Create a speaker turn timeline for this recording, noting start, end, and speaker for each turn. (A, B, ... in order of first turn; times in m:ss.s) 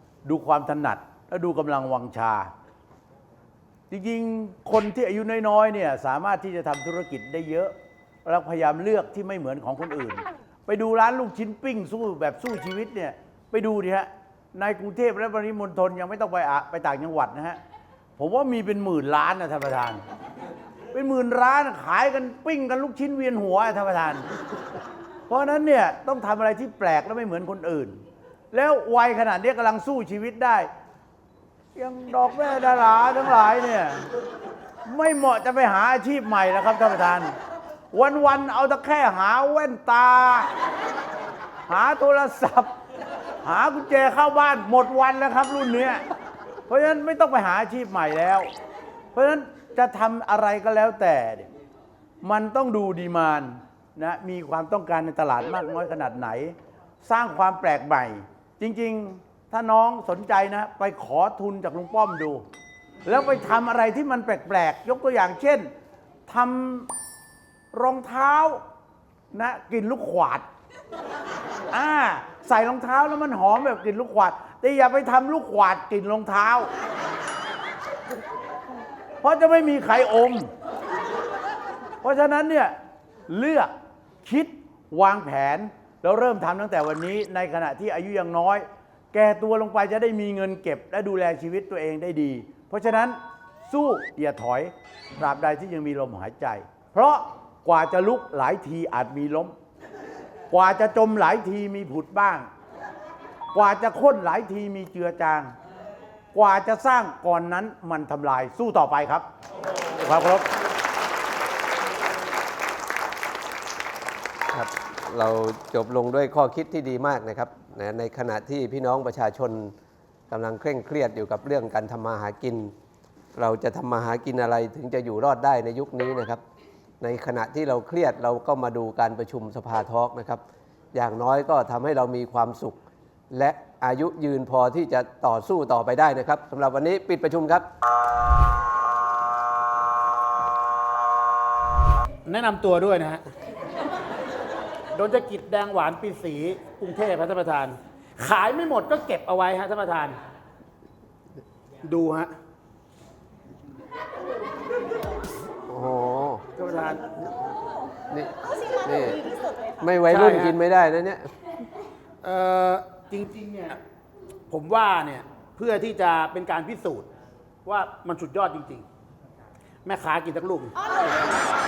0:00.2-0:02.5 A
0:03.9-0:07.7 A
0:08.2-0:17.6 A
0:18.2-0:20.0 A
0:20.9-0:24.3 A
0:25.3-0:30.7 A
0:31.7-0:34.1 A
0:34.8-0:37.3 A
0:37.9-0:40.5 A
0:41.7-0:42.7 A
0:43.4-0:46.0 A
0:46.7-0:48.5 A
0:49.1-0:51.5 A
0:52.2-1:02.4 A
1:03.0-1:05.7 A
1:06.3-1:06.9 A
1:07.7-1:08.6 A
1:09.3-1:10.4 A
1:11.7-1:16.7 A
1:19.2-1:20.5 A
1:22.0-1:22.7 A
1:23.3-1:23.7 A
1:24.2-1:39.5 A
1:40.5-1:42.5 A
1:43.5-1:45.5 A
1:46.3-1:49.2 A
1:50.0-1:50.5 A
1:54.5-1:59.7 B
2:00.3-2:02.7 B
2:03.3-2:06.4 B
2:07.0-2:10.4 B
2:10.9-2:17.6 B
2:22.2-2:23.2 C
2:24.9-2:30.2 C
2:31.8-2:32.3 C
2:35.7-2:36.4 B
2:36.6-2:37.3 C
2:38.1-2:39.2 B
2:38.5-2:39.9 D
2:39.8-2:41.3 B
2:40.0-2:40.6 C
2:42.2-2:43.8 C
2:44.5-2:47.1 C
2:47.6-2:48.8 C
2:49.8-2:50.7 C
2:50.8-2:51.5 D